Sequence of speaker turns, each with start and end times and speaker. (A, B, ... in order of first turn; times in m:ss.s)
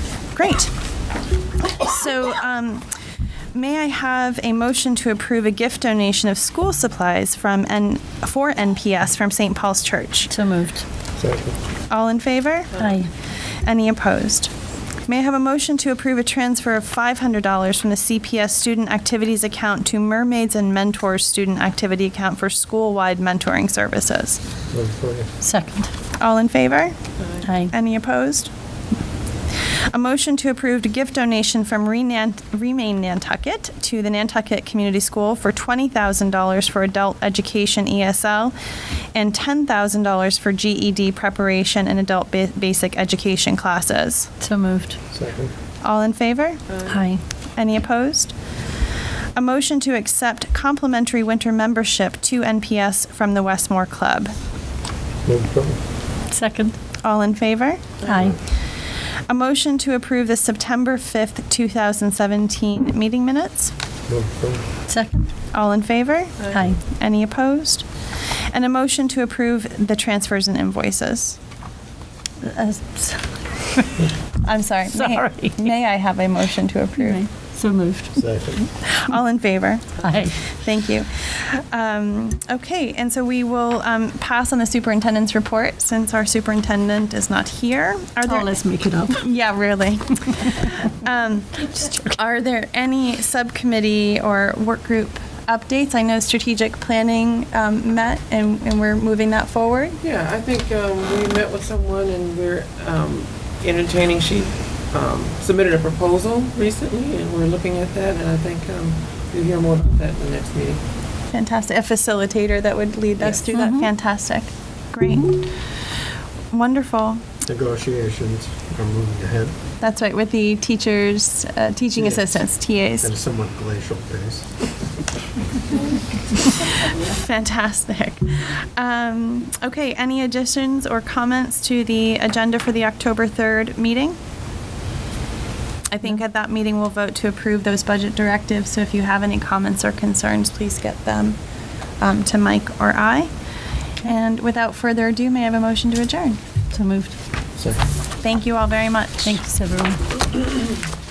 0:00.3-0:00.7 A
0:01.7-0:02.9 A
0:03.5-0:10.3 A
0:10.3-0:10.8 B
0:11.2-0:11.6 C
0:11.9-0:12.9 A
0:12.8-0:13.1 B
0:13.6-0:14.5 A
0:15.1-0:24.4 A
0:24.7-0:25.3 C
0:25.4-0:25.9 B
0:26.2-0:27.0 A
0:27.4-0:27.7 B
0:27.7-0:28.5 A
0:29.9-0:38.5 A
0:39.1-0:44.3 A
0:44.4-0:45.0 B
0:45.1-0:45.5 C
0:45.8-0:46.9 A
0:46.7-0:46.9 D
0:46.9-0:47.2 B
0:47.6-0:48.3 A
0:49.4-0:54.3 A
0:55.2-0:55.8 C
0:56.3-0:56.8 B
0:57.0-0:58.0 A
0:58.0-0:58.4 B
0:59.3-1:03.7 A
1:04.1-1:04.6 C
1:04.9-1:05.3 B
1:05.5-1:11.4 A
1:06.5-1:06.8 B
1:12.4-1:14.1 B
1:14.4-1:17.2 A
1:14.9-1:15.7 B
1:17.0-1:18.3 B
1:18.2-1:18.6 C
1:18.9-1:28.5 A
1:20.0-1:20.3 B
1:28.2-1:29.2 B
1:29.1-1:40.0 A
1:40.0-1:50.8 D
1:51.3-1:55.6 A
1:53.5-1:53.9 B
1:56.5-1:57.2 A
1:57.4-1:59.6 C
1:59.8-2:03.1 A
2:02.0-2:04.5 C
2:06.8-2:14.2 A
2:15.9-2:21.4 A
2:22.0-2:23.3 A
2:24.0-2:26.4 A
2:26.7-2:27.2 B
2:27.6-2:27.9 C
2:28.2-2:29.4 A
2:29.2-2:30.2 B